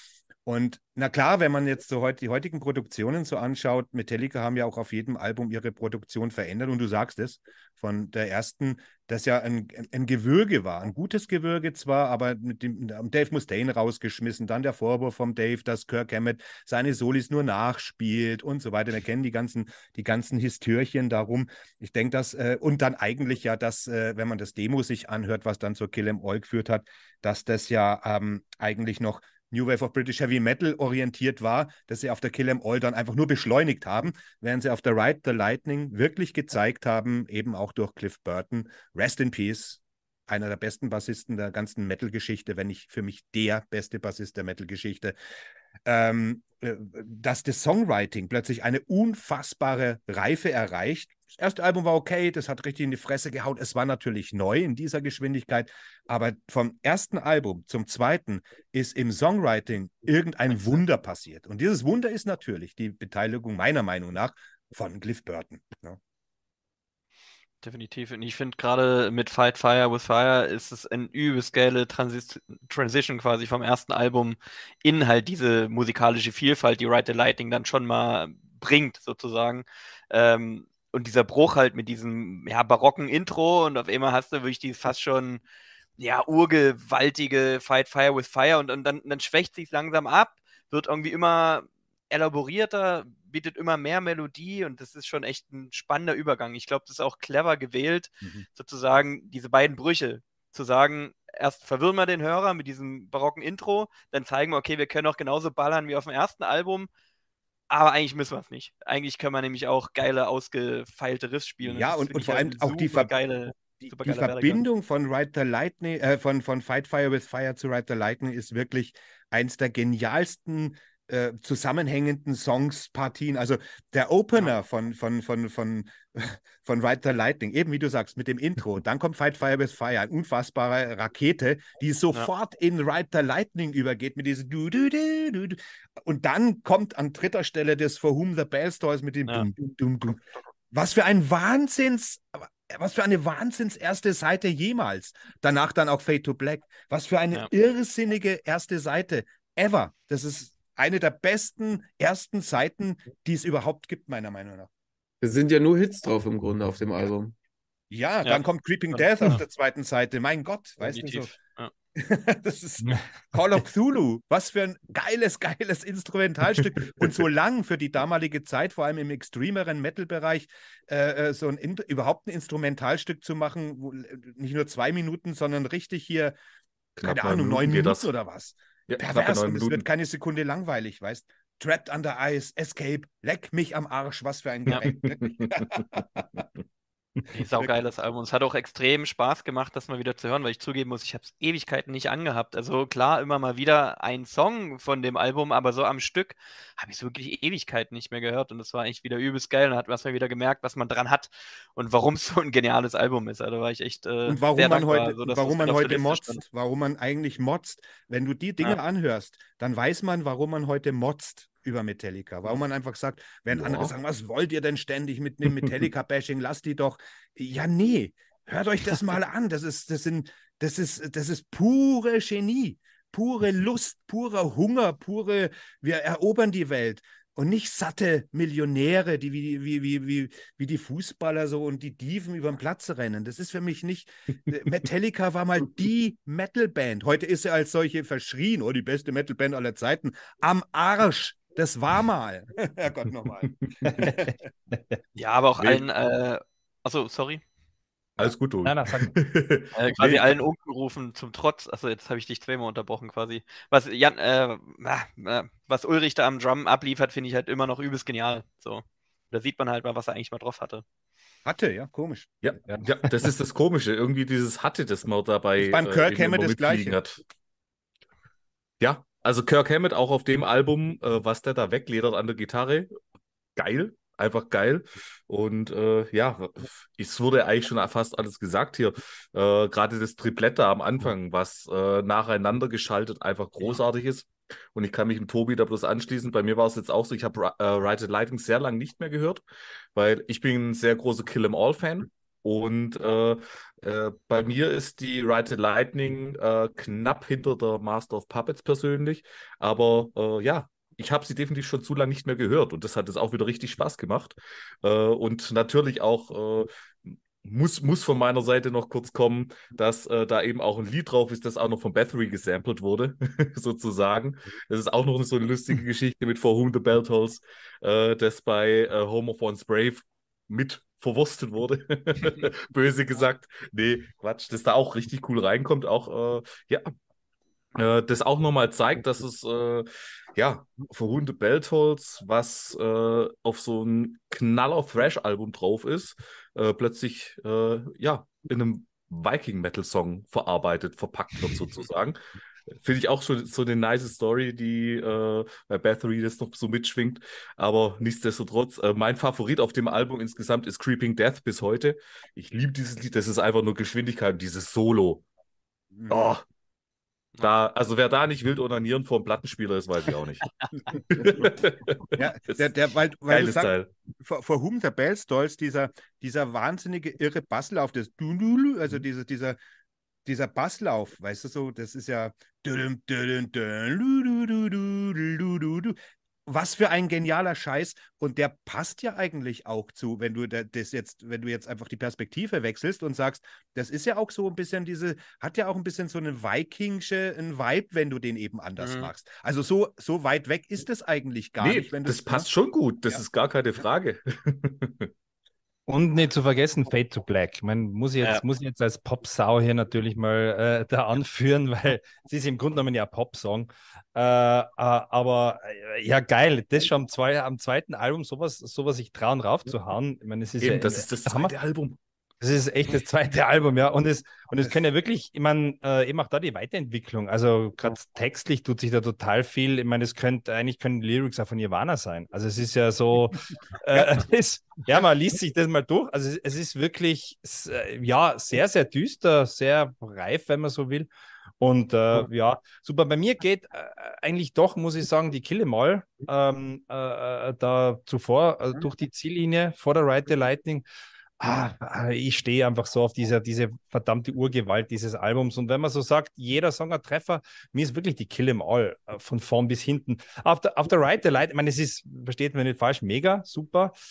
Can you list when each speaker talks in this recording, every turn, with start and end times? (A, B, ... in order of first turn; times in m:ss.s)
0:00.4-0:45.2 A
0:45.8-1:06.0 A
1:07.6-1:25.4 B
1:26.0-1:46.9 B
1:47.7-1:54.6 B
1:51.6-1:53.1 A
1:53.8-2:34.7 A
2:35.2-2:37.3 C
2:37.9-2:41.3 A
2:38.9-2:39.4 B
2:40.8-2:41.7 B
2:41.9-2:56.3 A
2:57.0-3:06.4 A
2:57.0-2:58.1 D
2:58.9-2:59.8 D
3:04.7-3:05.7 D
3:07.3-3:26.4 B
3:24.2-4:04.4 A
3:33.5-3:33.9 D
4:05.2-4:07.4 B
4:08.2-4:10.2 D
4:08.6-4:09.1 E
4:09.7-4:20.8 B
4:21.4-4:22.3 A
4:22.4-4:27.2 D
4:25.6-4:27.0 A
4:28.8-4:32.9 D
4:33.6-4:49.4 D
4:49.9-5:26.9 D
5:27.7-5:42.2 D
5:42.7-5:55.2 D
5:55.9-5:56.3 A
5:56.1-5:56.4 D
5:57.4-6:00.5 D
6:01.1-6:02.6 D
6:02.2-6:09.6 A
6:03.3-6:03.9 D
6:10.2-6:32.5 A
6:28.8-6:29.1 B
6:31.6-6:35.1 D
6:35.9-6:51.5 E
6:50.6-6:52.0 D
6:52.4-7:11.1 E
7:11.6-7:20.8 E
7:21.4-7:33.9 E